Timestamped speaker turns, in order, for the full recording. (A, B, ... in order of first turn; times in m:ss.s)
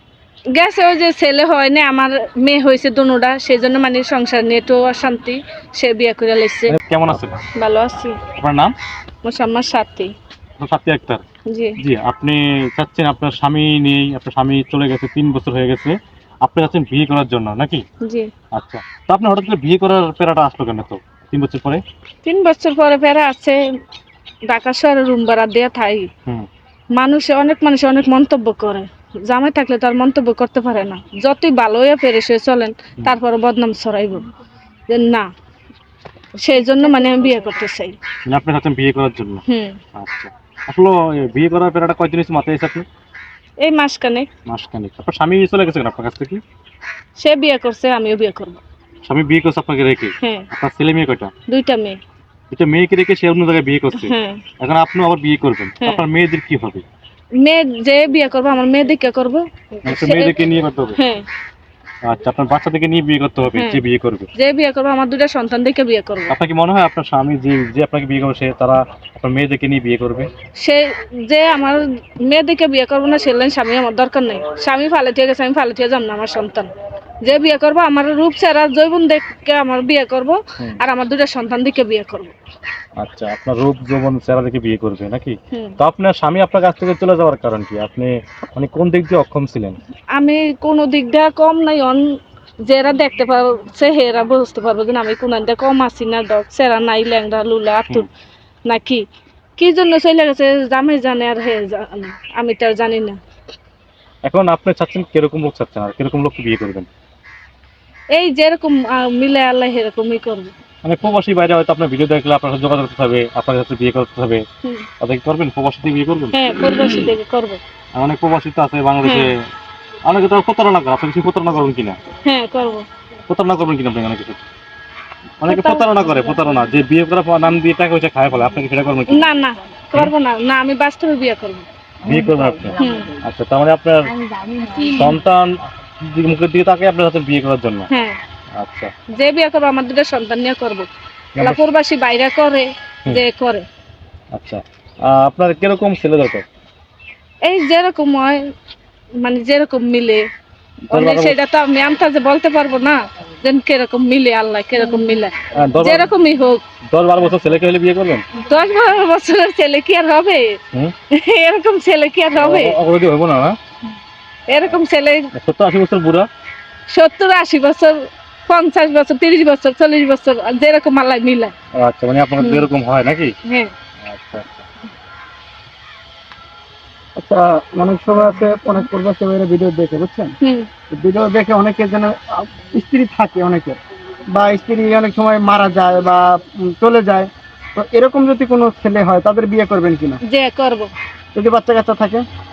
0:00.5-0:06.8 A
0:06.7-0:07.4 B
0:07.5-0:08.2 A
0:08.4-0:08.7 B
0:09.2-0:10.1 A
0:10.6-0:11.2 B
0:11.5-0:11.8 A
0:11.8-0:17.8 B
0:18.0-0:18.3 A
0:18.5-0:21.8 B
0:22.2-0:23.6 A
0:24.5-0:26.1 A
0:26.9-0:34.3 A
0:34.9-0:35.3 A
0:36.4-0:38.0 A
0:38.3-0:39.4 B
0:39.5-0:39.8 A
0:39.9-0:42.8 B
0:43.6-0:44.3 A
0:44.5-0:46.4 B
0:47.2-0:48.6 A
0:49.0-0:51.3 B
0:50.2-0:50.5 A
0:51.5-0:52.0 A
0:52.5-0:56.8 B
0:53.9-0:54.4 A
0:57.4-1:00.4 A
0:59.8-1:01.0 B
1:01.0-1:01.2 A
1:02.0-1:04.3 B
1:03.5-1:03.8 A
1:04.3-1:06.3 A
1:06.3-1:10.3 B
1:10.6-1:16.7 A
1:17.2-1:22.3 A
1:23.0-1:29.8 B
1:30.2-1:32.1 A
1:32.6-1:38.1 A
1:38.7-1:39.0 A
1:39.6-1:43.2 A
1:44.2-1:46.9 B
1:48.1-1:50.5 A
1:50.8-1:54.4 B
1:55.0-1:56.4 B
1:56.3-1:57.6 A
1:57.9-1:59.3 B
1:59.0-1:59.3 A
2:00.0-2:02.0 B
2:02.2-2:02.8 A
2:03.3-2:04.4 B
2:05.4-2:09.3 B
2:05.4-2:06.0 A
2:09.1-2:11.7 A
2:12.0-2:14.1 B
2:12.8-2:13.1 A
2:14.8-2:17.9 B
2:17.9-2:18.2 A
2:18.6-2:18.9 B
2:19.1-2:20.9 A
2:21.4-2:21.6 B
2:21.4-2:23.6 A
2:24.3-2:26.4 B
2:27.4-2:28.5 A
2:29.2-2:30.2 A
2:30.9-2:31.4 B
2:30.9-2:36.6 A
2:35.5-2:36.1 B
2:36.9-2:38.2 B
2:38.4-2:40.6 A
2:41.1-2:42.8 A
2:42.4-2:43.6 B
2:44.5-2:45.3 A
2:45.3-2:46.3 B
2:46.9-2:51.5 A
2:51.8-2:53.3 B
2:52.4-2:52.6 A
2:53.4-2:53.7 A
2:54.0-2:54.6 B
2:57.2-3:00.3 C
3:00.4-3:00.7 A
3:00.9-3:03.8 C
3:04.3-3:10.2 C
3:10.2-3:10.9 A
3:11.3-3:12.2 C